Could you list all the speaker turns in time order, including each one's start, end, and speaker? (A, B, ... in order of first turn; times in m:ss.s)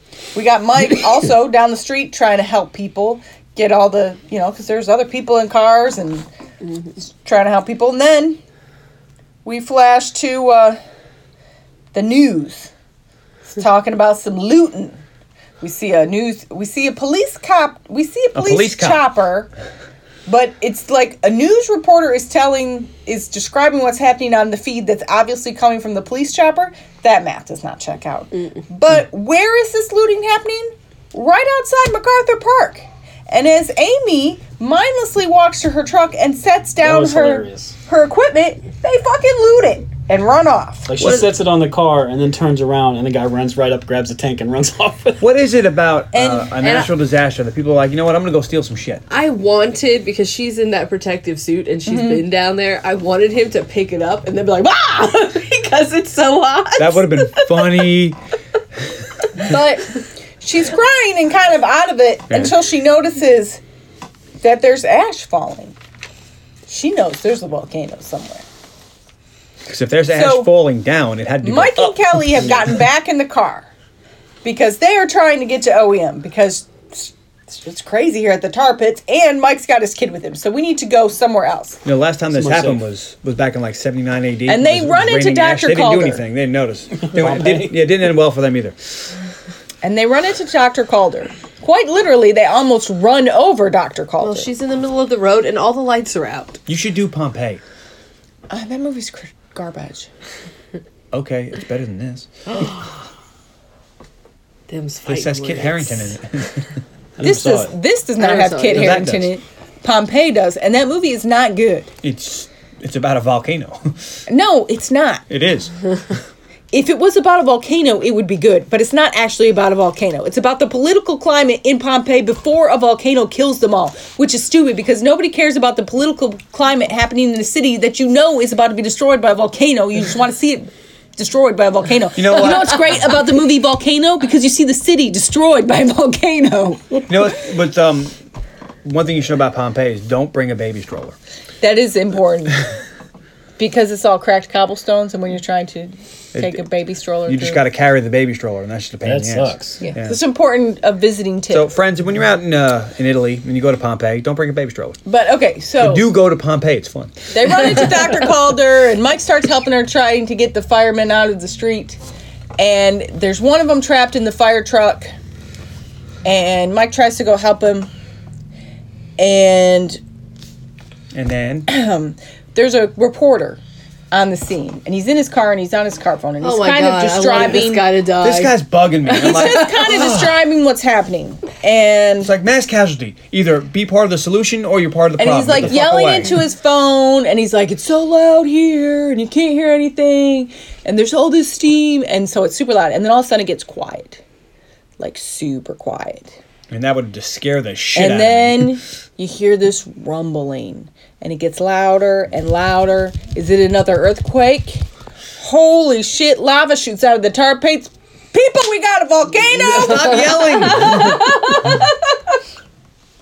0:00.3-0:06.3 A
0:07.0-0:08.4 A
0:09.4-0:10.8 A
0:11.9-0:12.7 A
0:13.6-0:15.0 A
0:15.6-0:19.5 A
0:18.4-0:19.0 B
0:20.3-0:40.9 A
0:36.8-0:37.8 C
0:40.9-0:45.2 C
0:41.0-0:41.3 B
0:45.2-0:49.0 B
0:46.1-0:46.5 A
0:46.6-0:46.9 D
0:49.1-0:57.9 D
0:51.9-0:52.2 A
0:56.8-0:58.2 B
0:59.4-0:59.9 A
1:00.4-1:03.6 A
1:04.4-1:05.8 A
1:06.7-1:08.4 A
1:09.7-1:12.7 B
1:10.1-1:10.5 A
1:11.4-1:13.7 A
1:14.4-1:21.8 A
1:21.8-1:28.8 B
1:22.3-1:22.8 C
1:24.5-1:26.2 A
1:27.0-1:27.8 C
1:29.8-1:34.5 A
1:34.2-1:36.6 D
1:36.7-1:37.6 B
1:38.5-1:40.1 A
1:41.1-1:42.3 B
1:42.5-1:43.0 D
1:44.7-1:46.1 D
1:45.1-1:46.7 B
1:47.2-1:47.7 C
1:47.2-1:51.9 A
1:48.2-1:49.0 D
1:48.7-1:49.3 B
1:52.0-1:53.9 B
1:54.3-1:55.2 A
1:55.3-1:55.7 B
1:56.7-2:17.1 A
2:12.1-2:13.0 B
2:17.1-2:18.1 B
2:18.8-2:21.2 B
2:21.6-2:22.6 A
2:23.6-2:27.6 A
2:26.3-2:26.6 B
2:27.3-2:30.2 B
2:29.0-2:29.8 C
2:29.8-2:31.7 A
2:31.5-2:35.0 B
2:35.1-2:36.1 A
2:35.8-2:37.2 B
2:37.3-2:42.0 A
2:42.6-2:45.1 A
2:46.2-2:47.9 A
2:49.2-2:50.0 A
2:51.1-2:51.7 B
2:51.7-2:53.6 A
2:54.1-2:57.9 A
2:56.4-2:59.9 D
2:58.2-3:00.4 B
2:59.1-3:02.3 A
3:02.2-3:06.4 B
3:05.2-3:14.2 A
3:15.0-3:16.3 A
3:16.7-3:18.8 B
3:18.0-3:24.8 A
3:25.4-3:31.8 A
3:29.6-3:31.3 B
3:30.7-3:31.8 D